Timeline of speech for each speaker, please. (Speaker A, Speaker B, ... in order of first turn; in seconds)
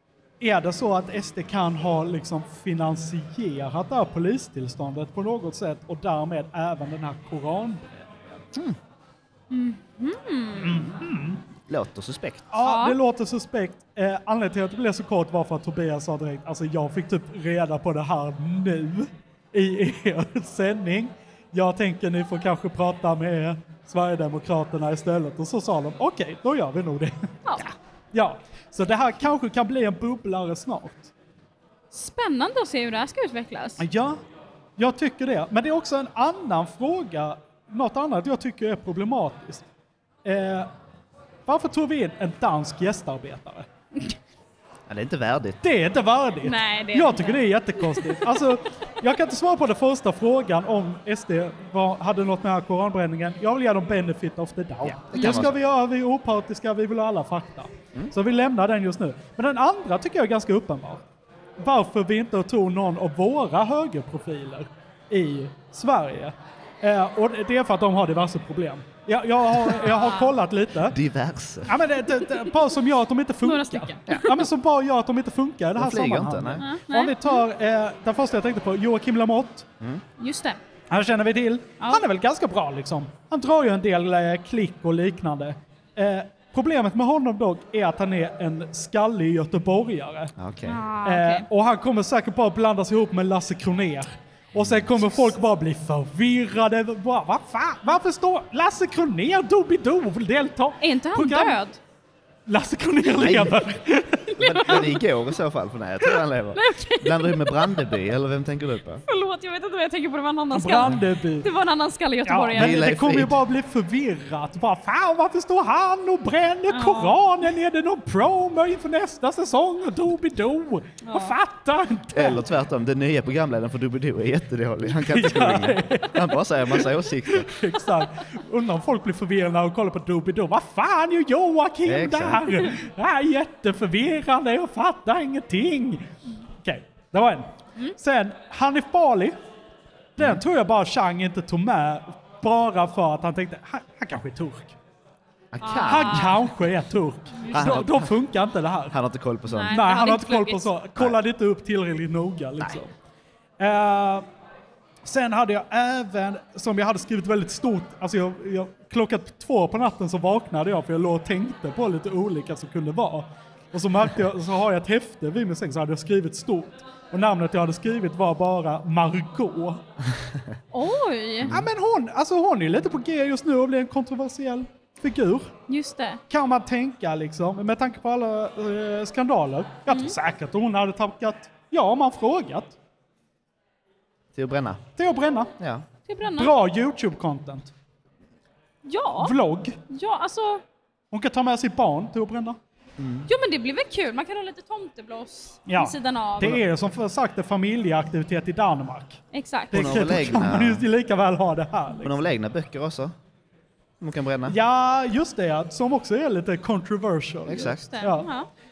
Speaker A: 0.4-8.2, 10.6-11.4, 12.5-31.1, 33.8-34.2, 34.8-39.6, 40.2-40.7, 41.5-43.7, 45.6-61.0, 61.6-71.0, 71.7-79.7, 80.9-90.3, 91.0-101.6, 102.5-104.8, 110.5-111.5, 112.3-122.4, 125.0-136.1, 136.6-139.3, 140.2-144.8, 145.8-148.9, 149.7-152.9, 153.6-154.3, 155.0-169.8, 171.5-175.5, 176.3-182.8, 185.0-185.5, 186.3-187.7, 189.2-189.8, 191.1-192.6, 195.7-199.2, 199.7-202.2, 204.5-208.3
Speaker B: 9.5-10.9, 12.6-13.0, 31.9-33.8, 46.4-48.2, 55.2-55.5, 69.8-70.3, 73.4-74.3, 76.6-77.4, 80.2-80.6, 90.7-91.5, 100.8-101.8, 104.4-105.0, 106.5-108.0, 109.1-112.8, 116.7-117.2, 121.1-121.3, 145.6-146.4, 149.5-150.7, 170.7-171.5, 175.7-176.2, 179.9-180.2, 186.1-186.5, 188.8-189.3, 189.9-190.6, 193.3-196.6, 199.3-199.9, 207.6-208.5
Speaker C: 11.7-12.5, 44.9-45.6, 54.8-55.6, 70.9-71.8, 74.1-74.4, 75.8-76.6, 90.4-90.8, 94.5-95.3, 103.2-103.6, 104.4-109.0, 112.5-113.4, 122.1-127.5, 131.8-132.6, 145.5-146.4, 147.5-148.1, 148.9-149.9, 152.6-152.9, 184.3-184.8, 185.6-185.9, 193.0-193.3, 199.7-200.8, 202.0-203.1, 204.0-204.6, 207.5-207.9